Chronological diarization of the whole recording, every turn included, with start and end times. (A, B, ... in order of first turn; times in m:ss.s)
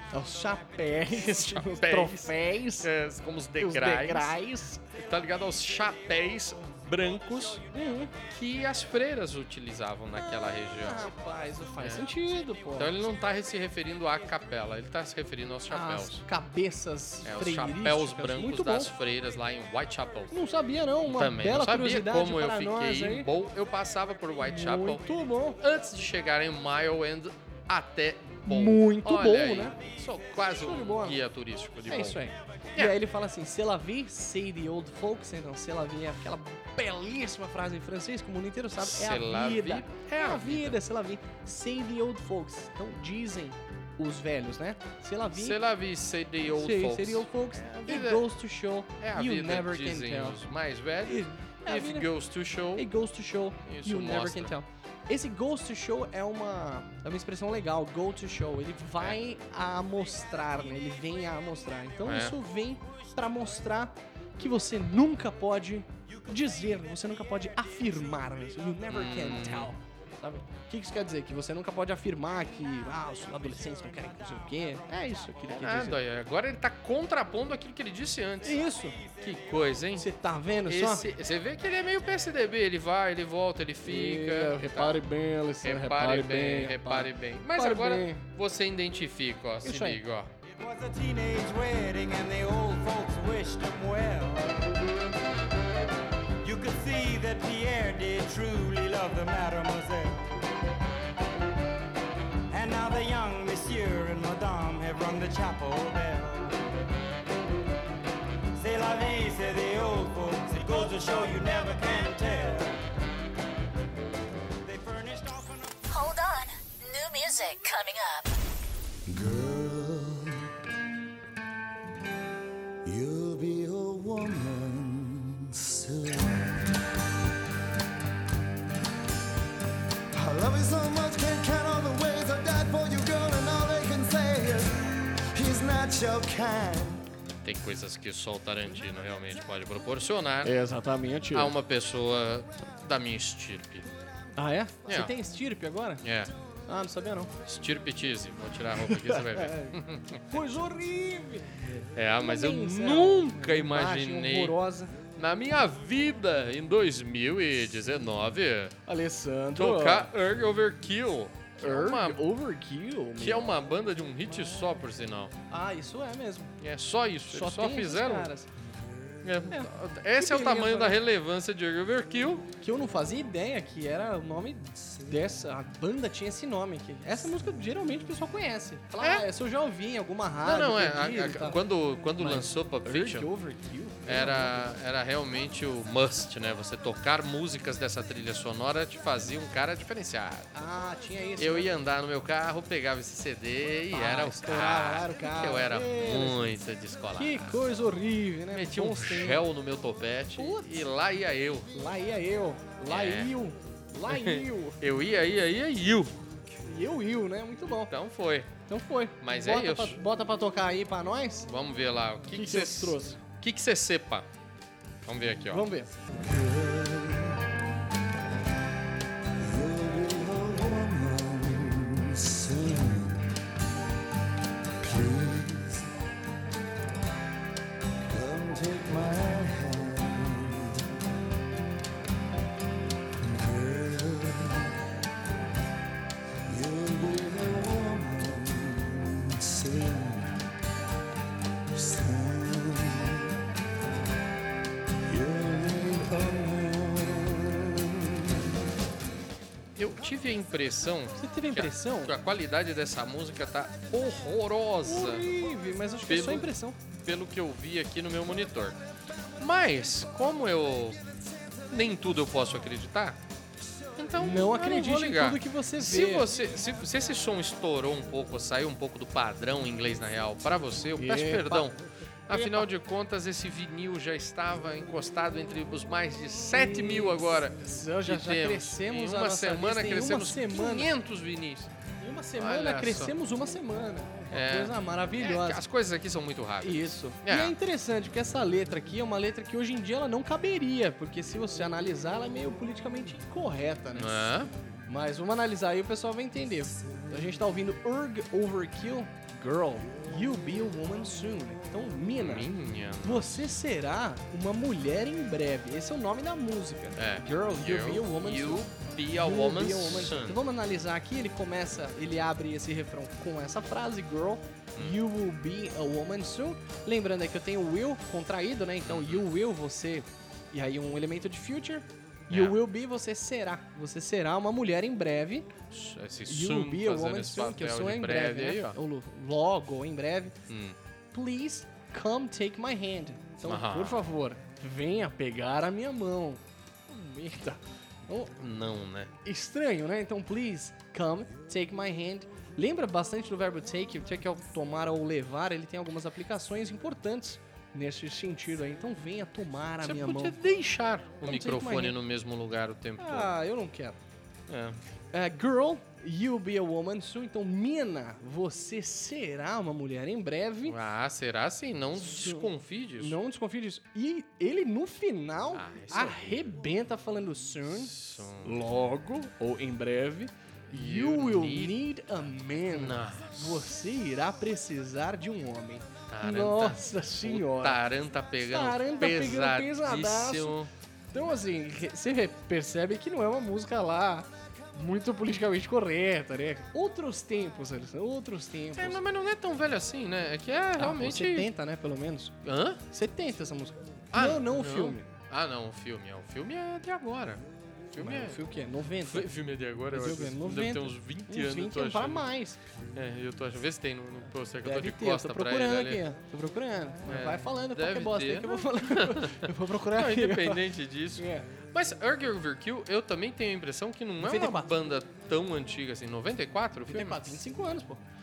0:00.1-0:02.9 A
0:01.1-0:04.4 B
0:03.6-0:04.8 A
0:04.9-0:07.6 B
0:07.7-0:08.1 A
0:08.3-0:11.1 B
0:10.6-0:13.1 A
0:11.8-0:12.1 B
0:12.8-0:16.2 B
0:15.7-0:18.9 A
0:17.2-0:20.3 B
0:20.3-0:23.3 A
0:21.1-0:25.0 B
0:24.4-0:25.6 A
0:25.6-0:32.2 B
0:28.5-0:29.8 A
0:30.5-0:31.2 A
0:31.9-0:45.6 A
0:38.8-0:40.8 B
0:45.4-0:48.3 B
0:46.5-0:50.4 A
0:49.0-0:52.9 B
0:51.1-0:52.1 A
0:52.8-1:16.0 A
0:53.6-0:54.6 B
1:02.0-1:02.4 B
1:08.9-1:09.7 B
1:15.5-1:18.6 B
1:18.4-1:19.0 A
1:19.2-1:20.1 B
1:20.0-1:21.1 A
1:20.7-1:25.0 B
1:23.8-1:28.2 A
1:25.6-1:30.3 B
1:29.6-1:30.0 A
1:30.6-1:34.8 C
1:36.4-1:40.4 C
1:42.5-1:46.6 C
1:48.6-1:52.8 C
1:54.6-1:55.8 C
1:55.9-1:58.3 D
1:59.1-2:00.5 E
2:02.8-2:06.7 E
2:10.1-2:17.0 E
2:17.4-2:20.6 B
2:20.4-2:21.6 A
2:21.3-2:23.9 B
2:24.4-2:26.0 A
2:24.9-2:25.1 B
2:26.0-2:26.3 B
2:26.7-2:27.3 A
2:27.4-2:30.3 B
2:28.8-2:29.8 A
2:30.3-2:31.5 A
2:31.9-2:34.6 B
2:32.2-2:35.0 A
2:35.2-2:38.8 B
2:38.9-2:40.1 A
2:39.6-2:42.2 B
2:41.6-2:43.6 A
2:43.2-2:45.3 B
2:45.5-2:46.6 A
2:46.6-2:48.3 B
2:47.3-2:48.5 A
2:49.2-2:52.5 B
2:49.5-2:51.0 A
2:52.6-3:01.6 A
2:59.0-2:59.3 B
3:00.4-3:03.3 B
3:02.2-3:04.7 A
3:04.1-3:10.5 B
3:10.5-3:11.8 A
3:11.4-3:17.6 B
3:13.9-3:16.5 A
3:17.2-3:19.4 A
3:18.5-3:21.7 B
3:20.4-3:20.9 A
3:21.7-3:24.8 A
3:22.9-3:23.3 B
3:24.1-3:26.2 B
3:26.6-3:27.9 A
3:27.9-3:28.5 B
3:28.7-3:31.5 A
3:29.2-3:30.0 B
3:31.4-3:34.3 B
3:32.3-3:33.2 A
3:35.0-3:35.7 B
3:35.5-3:35.9 A
3:36.2-3:37.4 E
3:39.4-3:43.3 E
3:44.8-3:45.9 E
3:48.0-3:50.9 E
3:53.2-3:54.8 E
3:56.5-4:00.4 E
4:01.7-4:03.3 E
4:05.1-4:08.5 E
4:09.8-4:15.3 B
4:11.2-4:12.1 A
4:14.8-4:16.8 A
4:16.1-4:18.8 B
4:19.4-4:21.0 B
4:21.7-4:23.2 B
4:24.0-4:41.7 B
4:24.2-4:26.3 A
4:31.0-4:31.8 A
4:32.3-4:32.7 A
4:36.5-4:40.9 A
4:42.0-4:45.6 A
4:42.4-4:43.2 B
4:44.3-4:47.6 B
4:46.6-4:54.3 A
4:54.0-4:54.5 B
4:54.9-5:25.5 A
5:02.2-5:03.3 B
5:07.0-5:10.4 B
5:18.8-5:19.2 B
5:22.3-5:22.6 B
5:25.7-5:28.8 B
5:26.3-5:30.4 A
5:30.5-5:30.8 B
5:31.1-5:38.3 A
5:33.4-5:34.0 B
5:38.4-5:39.1 B
5:39.2-5:50.4 A
5:49.8-5:53.3 B
5:51.2-5:52.0 A
5:53.0-5:54.0 A
5:54.5-5:54.8 B
5:55.1-6:00.8 A
6:00.7-6:03.2 B
6:02.0-6:17.8 A
6:05.5-6:06.5 B
6:07.7-6:08.6 B
6:10.7-6:11.8 B
6:12.7-6:13.7 B
6:16.1-6:20.7 B
6:18.4-6:20.6 A
6:21.1-6:29.0 A
6:28.7-6:31.5 B
6:30.8-6:32.4 A
6:32.4-6:32.8 B
6:32.9-6:35.1 A
6:34.1-6:38.4 B
6:38.0-6:39.3 A
6:39.0-6:42.3 B
6:39.9-6:42.6 A
6:42.9-6:46.0 B
6:44.6-6:51.5 A
6:47.1-6:57.4 B
6:54.2-6:54.7 A
6:56.8-6:58.0 A